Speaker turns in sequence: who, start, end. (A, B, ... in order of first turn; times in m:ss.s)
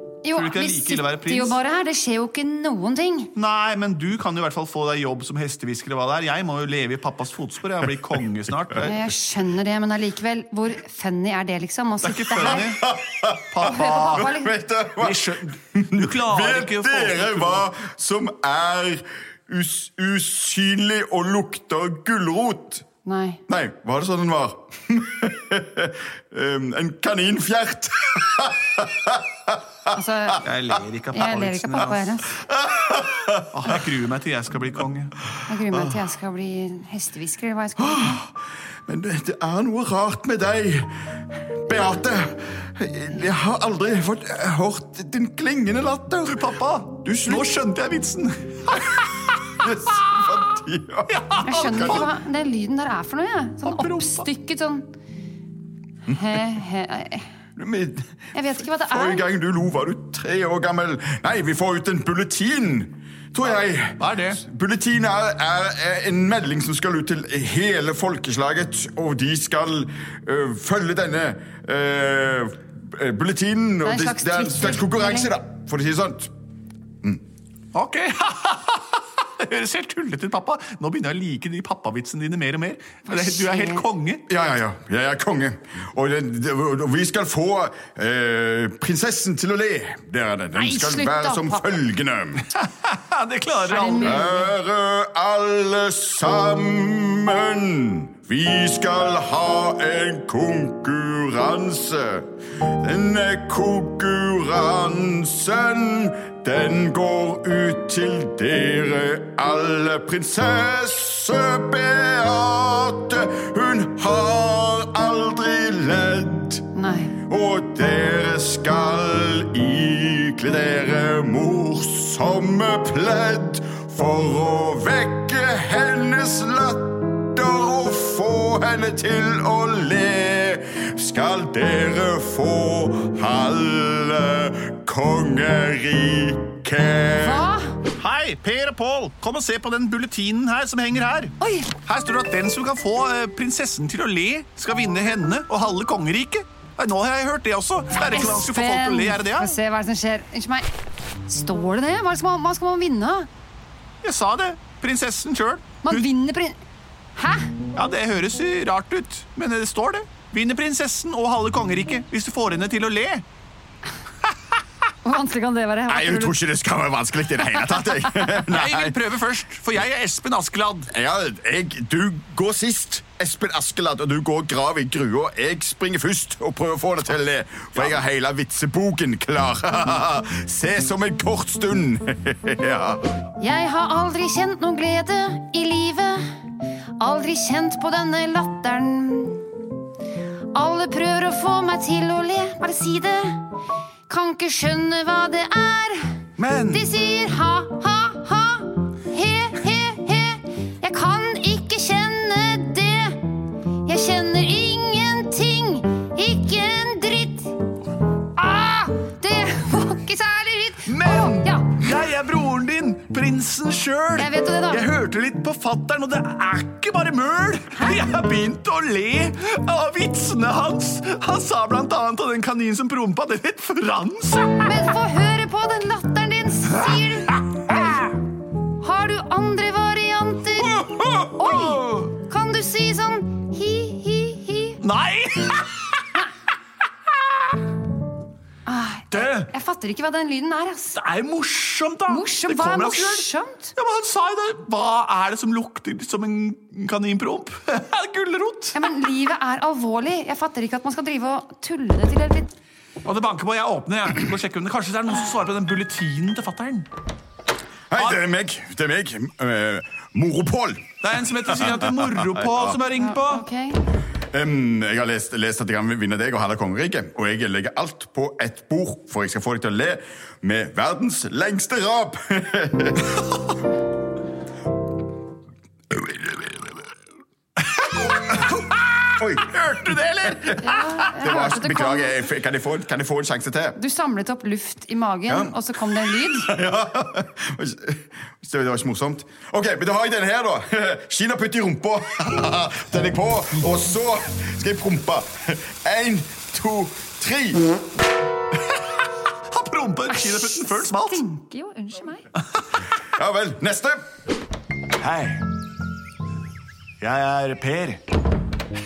0:00.2-0:03.3 A
0:00.3-0:01.6 B
0:03.4-0:09.1 B
0:08.8-0:12.7 A
0:12.0-0:12.9 B
0:12.6-0:22.8 C
0:13.5-0:14.3 B
0:13.6-0:14.5 A
0:15.0-0:17.7 B
0:23.0-0:23.4 A
0:23.5-0:29.6 C
0:29.9-0:30.4 A
0:30.4-0:32.1 B
0:31.1-0:32.4 A
0:32.5-0:33.8 C
0:33.5-0:35.2 B
0:35.5-0:38.2 A
0:37.8-0:38.3 C
0:38.9-0:40.9 C
0:41.7-0:47.6 C
0:46.3-0:49.7 B
0:49.6-0:52.1 C
0:51.1-0:52.1 B
0:51.4-0:54.9 A
0:53.6-0:54.3 B
0:56.1-0:57.3 A
0:56.1-0:56.4 C
0:57.6-1:16.3 C
0:58.3-0:59.2 A
1:03.4-1:04.4 B
1:13.8-1:15.3 A
1:17.7-1:24.3 B
1:23.1-1:23.9 A
1:24.3-1:32.5 C
1:30.6-1:31.8 A
1:32.5-1:34.3 B
1:33.6-1:34.5 A
1:34.0-1:56.6 C
1:56.8-1:57.2 A
1:57.3-2:17.5 C
2:17.1-2:17.8 A
2:17.9-2:29.6 B
2:21.4-2:21.7 A
2:28.1-2:30.7 A
2:31.3-2:33.3 A
2:34.0-2:36.1 B
2:35.8-2:36.6 A
2:37.2-2:37.5 A
2:37.8-2:43.2 B
2:45.0-2:46.4 A
2:45.9-2:49.0 C
2:48.4-2:50.9 B
2:50.9-3:03.1 C
3:03.4-3:06.3 A
3:07.0-3:09.5 A
3:10.5-3:13.5 A
3:14.1-3:27.6 A
3:16.4-3:16.9 B
3:28.4-3:31.8 A
3:30.8-3:44.7 B
3:34.2-3:34.9 A
3:37.8-3:38.1 A
3:44.6-3:48.1 A
3:46.8-3:48.1 B
3:48.8-3:54.8 A
3:50.6-3:52.2 B
3:54.8-3:56.2 B
3:58.7-4:01.0 A
3:59.1-3:59.5 B
4:00.9-4:08.8 B
4:02.1-4:03.8 A
4:08.8-4:12.5 A
4:13.0-4:16.9 B
4:17.9-4:22.8 C
4:21.0-4:23.5 B
4:23.0-4:23.8 A
4:24.3-4:33.2 C
4:35.9-4:36.8 C
4:37.6-4:41.3 B
4:39.2-4:43.8 C
4:40.6-4:42.2 A
4:43.8-4:46.5 A
4:45.3-4:57.6 C
4:59.5-5:01.2 B
5:00.1-5:02.3 A
5:03.0-5:04.0 C
5:05.0-5:05.5 B
5:07.0-5:08.0 B